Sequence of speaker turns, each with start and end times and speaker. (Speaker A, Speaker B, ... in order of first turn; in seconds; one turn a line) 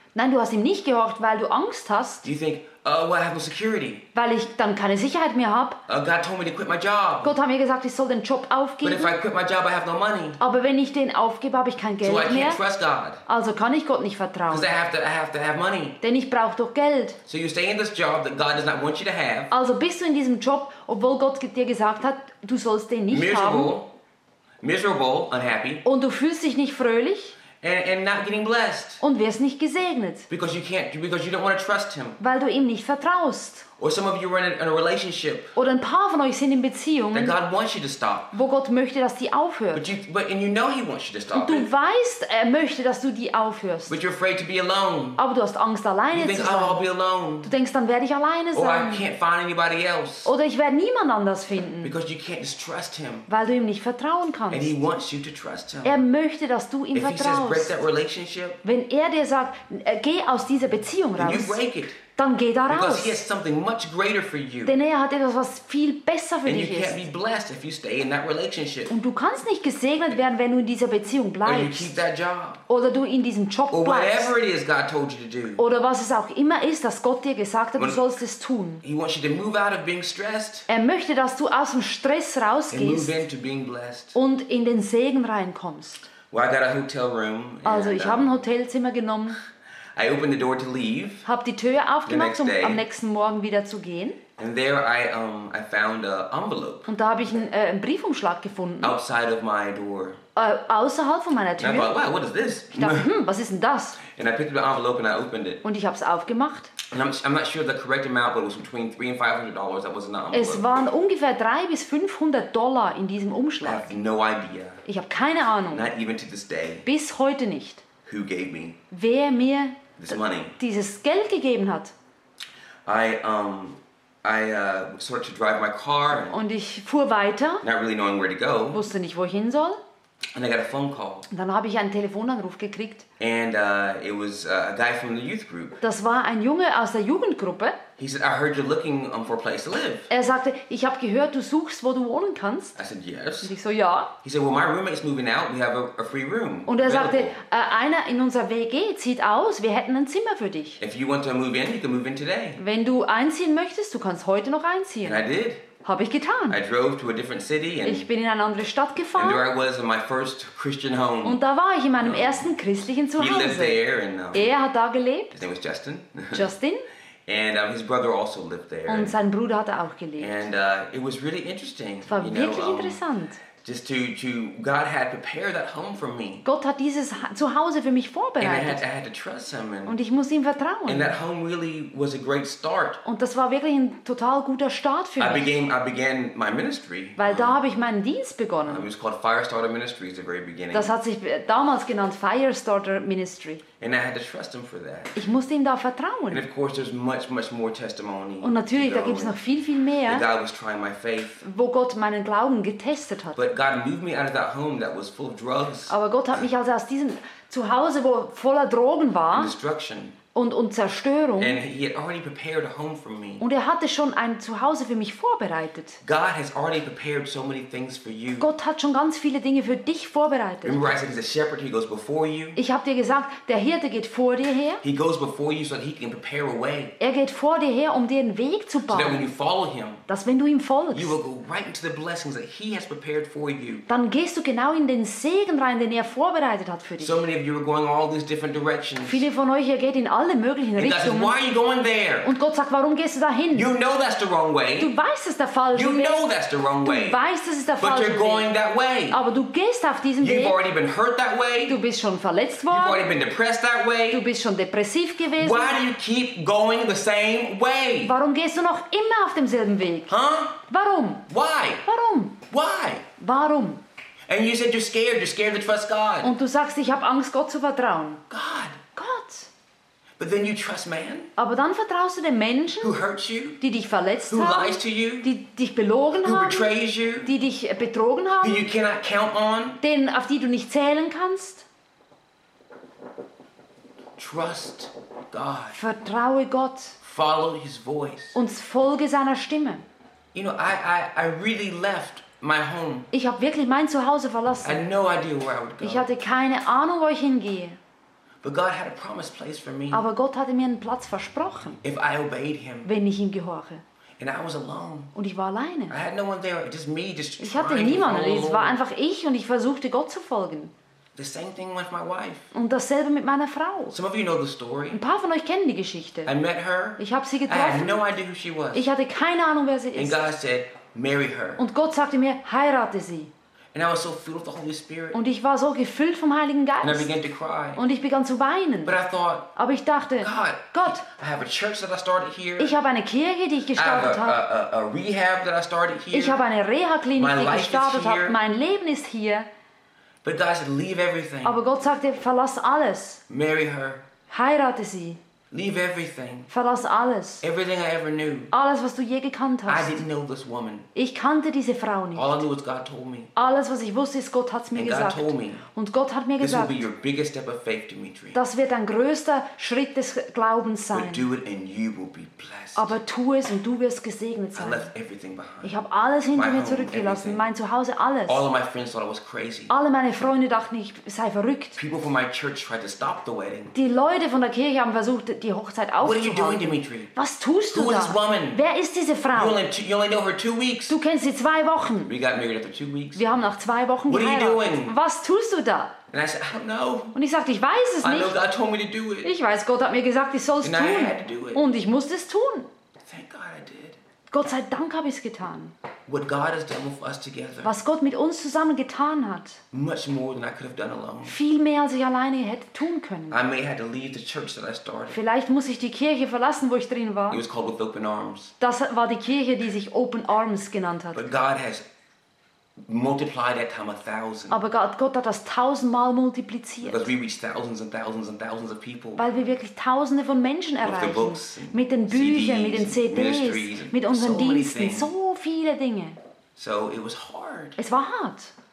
Speaker A: 0.1-2.3
Speaker B: 2.2-4.0
Speaker A: 4.2-5.8
Speaker B: 5.9-7.3
Speaker A: 7.2-9.2
Speaker B: 8.8-10.4
Speaker A: 10.4-12.6
Speaker B: 12.0-13.2
Speaker A: 13.3-14.7
Speaker B: 14.5-16.0
Speaker A: 16.0-17.2
Speaker B: 17.3-19.5
Speaker A: 19.5-23.7
Speaker B: 23.1-23.9
Speaker B: 24.6-25.9
Speaker A: 25.9-27.4
Speaker B: 27.6-29.0
Speaker A: 29.0-30.3
Speaker B: 30.3-32.2
Speaker A: 32.2-33.7
Speaker B: 33.8-35.5
Speaker A: 35.6-37.4
Speaker B: 37.1-38.4
Speaker A: 38.3-39.9
Speaker B: 39.7-41.7
Speaker A: 41.3-44.0
Speaker B: 43.9-45.2
Speaker A: 45.2-46.8
Speaker B: 46.1-47.5
Speaker A: 47.4-49.1
Speaker B: 48.5-50.3
Speaker A: 50.2-52.0
Speaker B: 51.8-53.3
Speaker A: 53.3-54.8
Speaker B: 54.5-56.0
Speaker A: 55.8-57.8
Speaker B: 56.9-58.6
Speaker A: 58.6-61.6
Speaker B: 61.2-62.0
Speaker A: 62.2-63.2
Speaker B: 62.7-64.8
Speaker A: 64.7-67.0
Speaker B: 66.5-68.9
Speaker A: 68.9-72.0
Speaker B: 71.4-72.6
Speaker A: 72.7-74.4
Speaker B: 73.7-75.6
Speaker A: 75.6-78.8
Speaker B: 77.8-78.0
Speaker B: 78.8-80.7
Speaker A: 80.7-83.2
Speaker B: 82.7-84.2
Speaker A: 84.2-86.1
Speaker B: 86.3-88.3
Speaker A: 87.7-89.4
Speaker B: 90.0-91.3
Speaker A: 91.3-94.2
Speaker B: 92.1-92.8
Speaker B: 94.4-96.9
Speaker A: 96.9-99.0
Speaker B: 98.8-100.2
Speaker A: 100.4-101.9
Speaker B: 101.6-103.1
Speaker A: 102.8-104.1
Speaker B: 104.0-105.6
Speaker A: 105.6-106.7
Speaker B: 106.9-110.7
Speaker A: 110.3-113.9
Speaker B: 113.6-114.8
Speaker A: 114.8-115.9
Speaker B: 115.7-116.9
Speaker A: 116.8-117.9
Speaker B: 118.0-118.8
Speaker A: 118.9-120.0
Speaker B: 120.0-120.6
Speaker A: 120.6-121.9
Speaker B: 122.9-126.4
Speaker A: 126.3-127.7
Speaker B: 127.6-128.8
Speaker A: 128.7-129.8
Speaker B: 130.3-131.3
Speaker A: 131.3-133.1
Speaker B: 133.2-135.8
Speaker A: 135.8-137.8
Speaker B: 138.0-140.1
Speaker A: 140.1-142.8
Speaker B: 142.8-143.5
Speaker A: 143.4-144.1
Speaker B: 144.2-147.4
Speaker A: 146.7-150.8
Speaker B: 150.8-152.6
Speaker A: 152.6-155.2
Speaker B: 155.0-155.7
Speaker A: 155.8-156.6
Speaker B: 156.5-158.1
Speaker A: 157.8-159.5
Speaker B: 159.2-161.4
Speaker A: 161.2-163.8
Speaker B: 162.0-162.5
Speaker B: 163.1-164.6
Speaker A: 164.3-165.4
Speaker B: 165.3-166.5
Speaker A: 166.3-166.9
Speaker B: 167.3-169.2
Speaker A: 168.9-170.5
Speaker B: 170.2-173.0
Speaker A: 172.1-173.4
Speaker B: 173.6-176.4
Speaker A: 176.4-178.8
Speaker B: 178.4-180.0
Speaker A: 179.8-181.2
Speaker B: 180.9-183.0
Speaker A: 183.1-185.6
Speaker B: 185.2-187.6
Speaker A: 187.2-188.9
Speaker B: 188.7-191.0
Speaker A: 190.7-193.6
Speaker B: 193.8-195.2
Speaker A: 195.2-196.5
Speaker B: 196.3-199.4
Speaker A: 198.4-200.3
Speaker B: 200.1-201.4
Speaker A: 201.4-203.4
Speaker B: 203.3-206.0
Speaker A: 205.9-209.6
Speaker B: 209.3-210.2
Speaker A: 210.3-211.6
Speaker B: 211.4-213.4
Speaker A: 213.4-216.0
Speaker B: 216.0-218.5
Speaker A: 218.4-221.0
Speaker B: 220.6-222.6
Speaker A: 222.6-224.8
Speaker B: 224.8-227.0
Speaker A: 227.0-229.3
Speaker B: 228.8-230.0
Speaker A: 230.1-231.2
Speaker B: 230.9-233.9
Speaker A: 233.9-237.2
Speaker B: 237.0-239.3
Speaker A: 239.0-241.3
Speaker B: 240.8-242.3
Speaker A: 242.2-243.7
Speaker B: 243.5-244.9
Speaker A: 244.8-246.2
Speaker B: 245.7-247.2
Speaker A: 246.8-248.5
Speaker B: 247.8-249.2
Speaker A: 249.1-250.6
Speaker B: 250.2-251.8
Speaker A: 251.7-253.1
Speaker B: 252.7-254.3
Speaker A: 254.1-255.8
Speaker B: 255.3-258.1
Speaker A: 258.0-260.1
Speaker B: 260.1-260.6
Speaker A: 260.7-261.3
Speaker B: 261.3-261.9
Speaker A: 261.9-262.4
Speaker B: 262.5-263.1
Speaker A: 263.2-263.8
Speaker B: 264.3-266.4
Speaker A: 266.2-268.2
Speaker B: 268.3-268.8
Speaker A: 269.0-269.5
Speaker B: 270.2-271.3
Speaker A: 271.4-273.0
Speaker B: 272.8-273.6
Speaker A: 273.6-278.7
Speaker B: 274.3-275.3
Speaker B: 276.2-277.3
Speaker B: 278.4-279.8
Speaker A: 279.8-281.7
Speaker B: 284.2-285.8
Speaker A: 285.7-287.0
Speaker B: 287.0-288.4
Speaker A: 288.3-289.9
Speaker B: 290.3-293.1
Speaker A: 293.1-294.9
Speaker B: 294.6-296.1
Speaker A: 295.8-297.8
Speaker B: 298.4-300.1
Speaker A: 299.9-301.8
Speaker B: 301.8-302.9
Speaker A: 302.9-303.8
Speaker B: 304.2-305.1
Speaker A: 305.1-306.0
Speaker B: 305.9-308.8
Speaker A: 307.4-310.7
Speaker B: 311.1-312.5
Speaker A: 312.5-314.0
Speaker B: 313.9-315.0
Speaker A: 314.9-316.3
Speaker B: 316.2-318.9
Speaker A: 317.0-318.1
Speaker A: 318.7-320.3
Speaker B: 319.9-321.6
Speaker A: 321.6-323.3
Speaker B: 323.7-325.2
Speaker A: 325.1-327.2
Speaker B: 326.8-327.8
Speaker A: 327.8-329.0
Speaker B: 328.9-329.5
Speaker A: 329.6-331.0
Speaker B: 330.2-332.8
Speaker A: 332.6-334.4
Speaker B: 333.8-336.4
Speaker A: 336.1-339.5
Speaker B: 337.1-338.4
Speaker B: 340.2-341.6
Speaker A: 341.4-343.2
Speaker B: 343.3-344.1
Speaker A: 344.3-345.2
Speaker B: 345.5-346.5
Speaker A: 346.5-347.4
Speaker B: 347.4-348.5
Speaker A: 348.5-350.0
Speaker B: 349.7-350.9
Speaker A: 350.9-352.4
Speaker B: 352.1-353.3
Speaker A: 353.4-356.9
Speaker B: 354.7-355.6
Speaker B: 356.4-358.4
Speaker A: 358.3-361.3
Speaker B: 360.9-362.9
Speaker A: 362.8-364.9
Speaker B: 364.6-365.8
Speaker A: 365.6-368.5
Speaker B: 366.4-367.5
Speaker B: 368.3-369.7
Speaker A: 369.7-371.8
Speaker B: 371.8-373.7
Speaker A: 373.7-379.6
Speaker B: 376.0-377.1
Speaker B: 377.7-378.6
Speaker B: 379.3-381.0
Speaker A: 380.9-382.1
Speaker B: 382.1-383.4
Speaker A: 383.1-385.9
Speaker B: 384.1-385.0
Speaker B: 386.1-387.2
Speaker A: 387.1-388.4
Speaker B: 388.0-389.3
Speaker A: 389.2-392.7
Speaker B: 390.6-391.6
Speaker B: 393.1-394.0
Speaker A: 394.3-395.8
Speaker B: 396.1-397.7
Speaker A: 397.6-399.6
Speaker B: 399.7-401.4
Speaker A: 401.2-403.4
Speaker B: 403.3-405.2
Speaker A: 405.1-407.4
Speaker B: 407.3-408.6
Speaker A: 408.6-411.3
Speaker B: 411.1-411.9
Speaker B: 412.9-414.6
Speaker A: 414.5-417.1
Speaker B: 416.8-419.3
Speaker A: 419.2-426.2
Speaker B: 420.8-425.1
Speaker B: 426.6-427.8
Speaker A: 427.8-428.5